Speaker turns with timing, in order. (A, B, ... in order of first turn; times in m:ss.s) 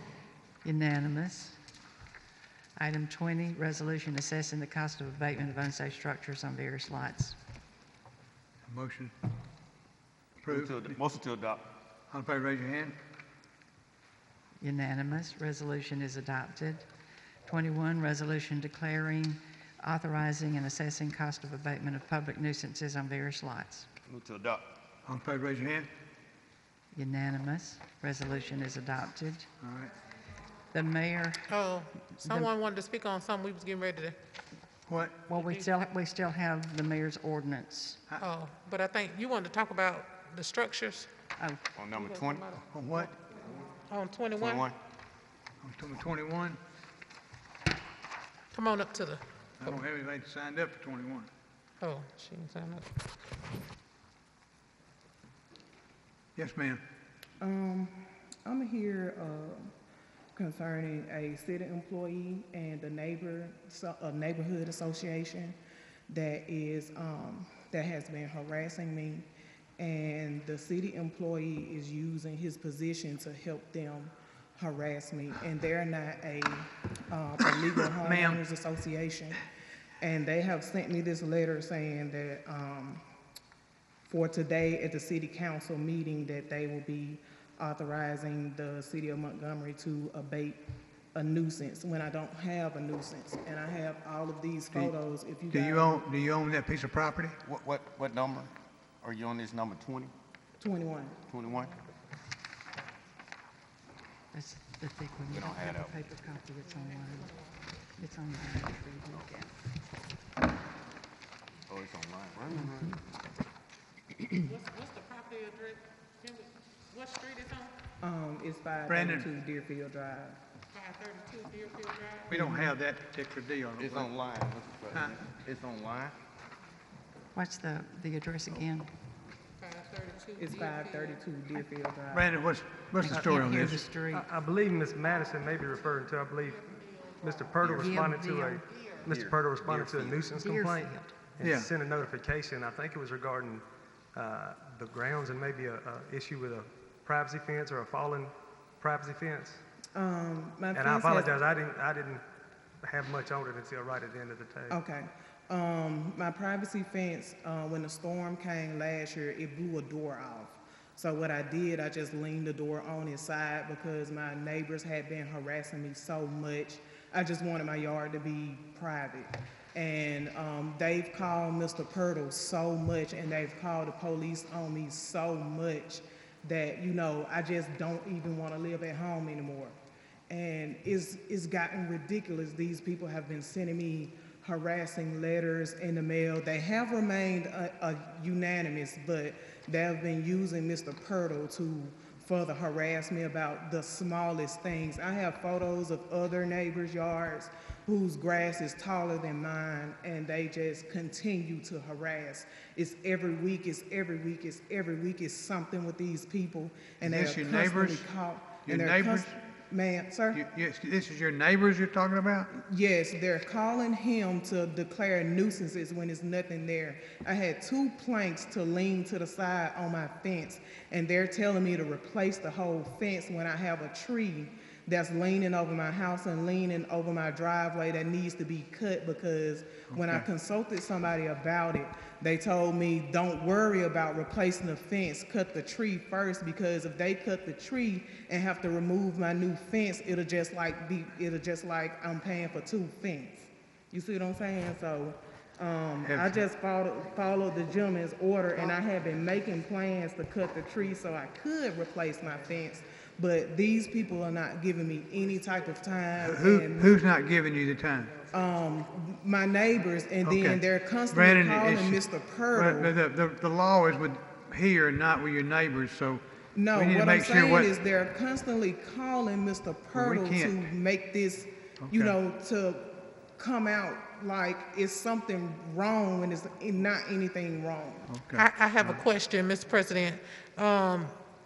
0:00.6-0:01.6 A
0:02.8-0:07.4 A
0:08.6-0:09.1 B
0:10.4-0:10.9 B
0:10.5-0:11.7 C
0:12.1-0:12.9 B
0:14.6-0:16.8 A
0:17.4-0:23.9 A
0:24.0-0:24.7 C
0:25.0-0:25.9 B
0:26.9-0:29.5 A
0:29.6-0:29.9 B
0:30.7-0:31.5 A
0:31.5-0:34.1 D
0:32.2-0:32.5 A
0:34.9-0:35.2 B
0:35.3-0:38.0 A
0:35.3-0:35.6 D
0:38.2-0:41.1 D
0:41.4-0:41.6 A
0:41.7-0:42.6 C
0:42.0-0:42.5 D
0:42.7-0:43.1 B
0:43.9-0:44.6 D
0:44.3-0:44.8 C
0:45.6-0:46.6 B
0:48.5-0:49.8 D
0:49.6-0:51.3 B
0:51.8-0:52.9 D
0:56.4-0:56.8 B
0:57.4-0:59.7 E
1:00.3-1:05.6 E
1:06.1-1:09.3 E
1:09.8-1:19.4 E
1:18.0-1:18.4 B
1:20.0-1:23.0 E
1:24.1-1:30.6 E
1:31.1-1:36.0 E
1:35.5-1:37.3 B
1:37.4-1:40.1 C
1:40.6-1:41.2 E
1:41.3-1:41.8 C
1:44.3-1:47.3 A
1:45.3-1:46.0 C
1:48.0-1:49.5 A
1:51.7-1:53.0 C
1:54.4-1:57.7 D
1:58.0-2:00.4 E
1:58.9-1:59.2 B
2:00.7-2:02.3 D
2:02.3-2:04.1 B
2:03.8-2:06.2 C
2:07.3-2:08.9 A
2:09.6-2:11.2 D
2:10.4-2:12.3 E
2:12.1-2:13.8 B
2:13.0-2:14.3 A
2:13.1-2:16.6 F
2:16.4-2:17.6 D
2:17.2-2:29.6 F
2:17.6-2:18.0 C
2:17.8-2:18.6 A
2:19.0-2:20.3 C
2:20.3-2:21.1 A
2:21.4-2:21.7 B
2:29.9-2:31.3 E
2:30.7-2:32.2 F
2:32.8-2:34.8 F
2:34.7-2:59.7 E
3:00.3-3:30.4 E
3:27.0-3:28.0 B
3:28.6-3:29.3 B
3:30.3-3:32.5 B
3:32.5-4:17.0 E
3:49.9-3:50.2 B
4:06.0-4:06.4 B
4:16.2-4:18.2 B
4:18.2-4:22.9 E
4:20.2-4:22.0 B
4:22.5-4:27.7 B
4:26.5-4:38.0 E
4:29.9-4:30.6 B
4:31.8-4:32.1 B
4:38.1-4:39.0 B
4:38.3-4:41.1 D